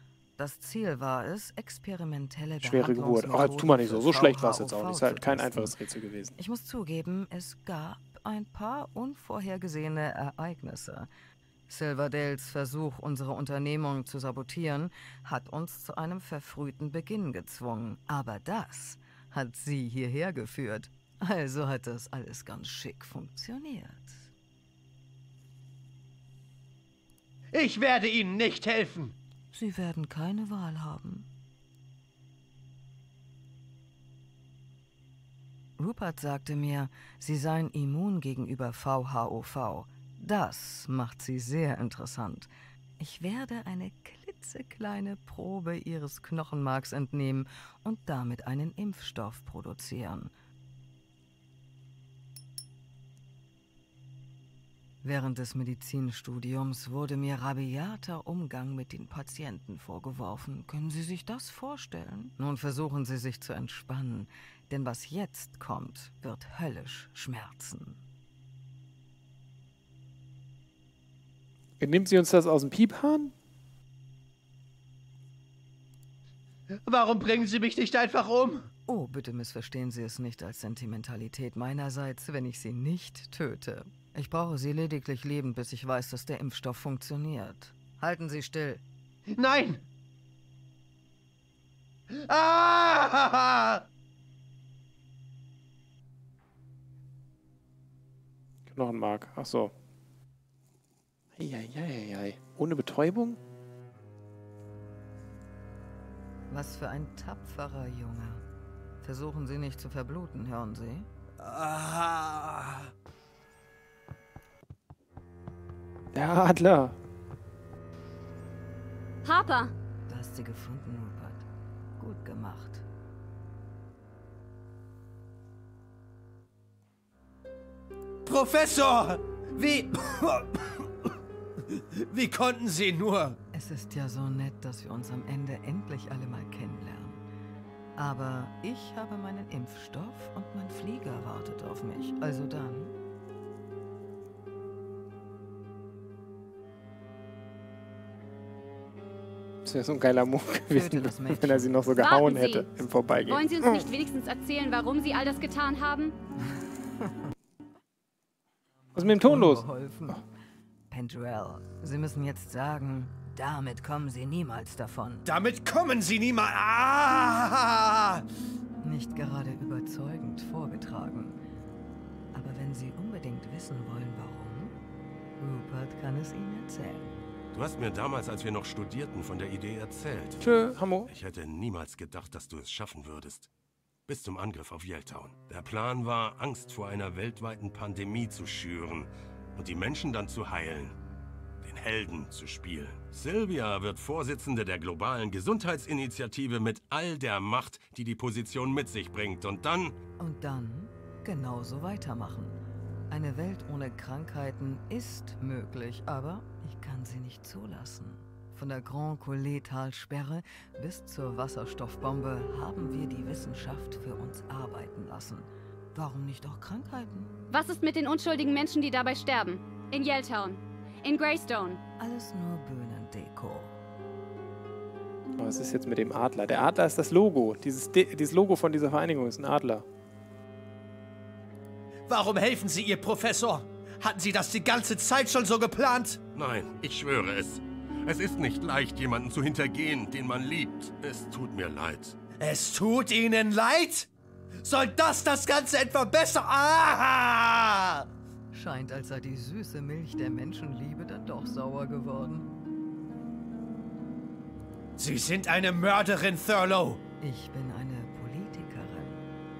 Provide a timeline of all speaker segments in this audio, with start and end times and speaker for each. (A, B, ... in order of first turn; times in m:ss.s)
0:00.4-0:05.7 A
0:02.6-0:06.3 B
0:06.4-0:11.1 A
0:11.7-0:24.3 A
0:27.5-0:29.1 C
0:29.5-0:31.2 A
0:35.8-0:50.3 A
0:55.0-1:08.0 A
1:11.8-1:13.3 B
1:16.7-1:18.7 C
1:18.9-1:28.8 A
1:29.3-1:29.8 C
1:32.1-1:33.8 C
1:38.7-1:39.7 B
1:41.4-1:43.4 B
1:46.5-1:48.4 A
1:49.0-1:51.1 A
1:51.4-1:52.9 C
1:56.1-1:56.9 B
1:59.2-1:59.7 D
2:00.1-2:01.4 A
2:02.0-2:02.8 A
2:08.2-2:11.1 C
2:11.7-2:13.4 C
2:13.5-2:17.2 A
2:18.0-2:22.9 A
2:29.6-2:33.9 B
2:30.7-2:31.8 A
2:32.0-2:32.6 D
2:33.2-2:36.1 D
2:38.9-2:40.2 A
2:39.0-2:40.1 B
2:40.9-2:45.2 A
2:45.2-2:48.2 C
2:48.8-2:51.4 A
2:52.3-2:54.8 A
2:55.4-2:57.2 A
2:57.5-3:00.4 E
3:00.4-3:01.1 B
3:01.1-3:03.5 E
3:04.1-3:11.0 E
3:11.6-3:20.0 E
3:20.2-3:22.6 A
3:23.1-3:37.3 A
3:37.5-3:41.8 D
3:42.0-3:43.8 A
3:45.4-3:49.8 B
3:52.1-3:56.2 C
3:56.3-4:02.2 E
4:02.4-4:04.1 C
4:04.6-4:08.0 C
4:08.5-4:12.5 A
4:15.0-4:17.0 C
4:17.2-4:19.2 A